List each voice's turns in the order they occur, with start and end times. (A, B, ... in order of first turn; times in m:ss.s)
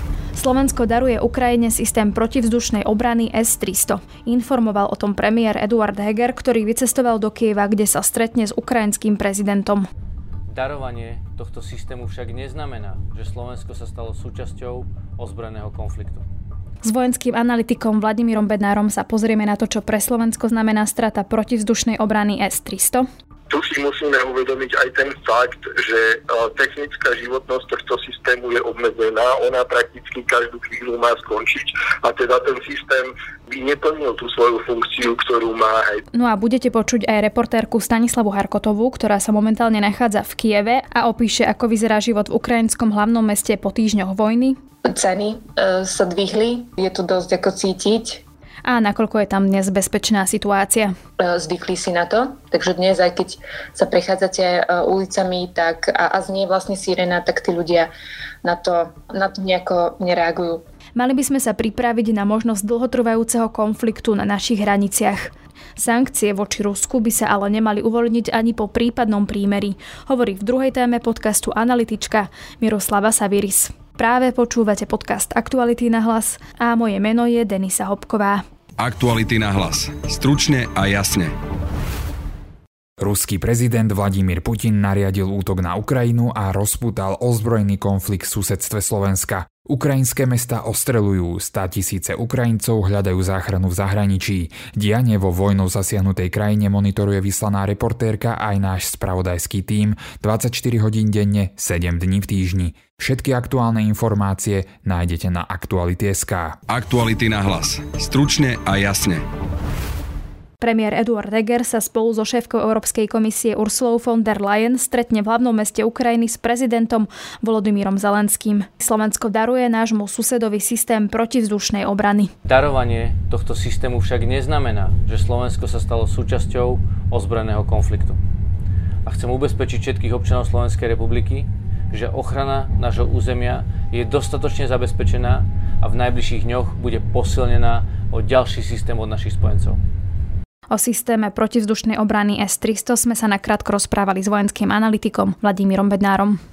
0:00.4-0:09.9 A
0:10.5-0:16.2 B
0:16.8-0:23.1 A
0:23.5-0:36.0 C
0:36.1-0:44.6 A
0:44.9-0:48.2 D
0:48.7-0:50.9 A
0:51.2-0:57.9 D
0:58.4-1:00.6 D
1:01.0-1:18.4 A
1:18.8-1:21.3 E
1:23.0-1:46.6 F
1:46.7-1:49.2 E
1:50.6-2:02.3 A
2:02.4-2:08.2 B
2:09.1-2:19.8 B
2:20.7-2:26.4 A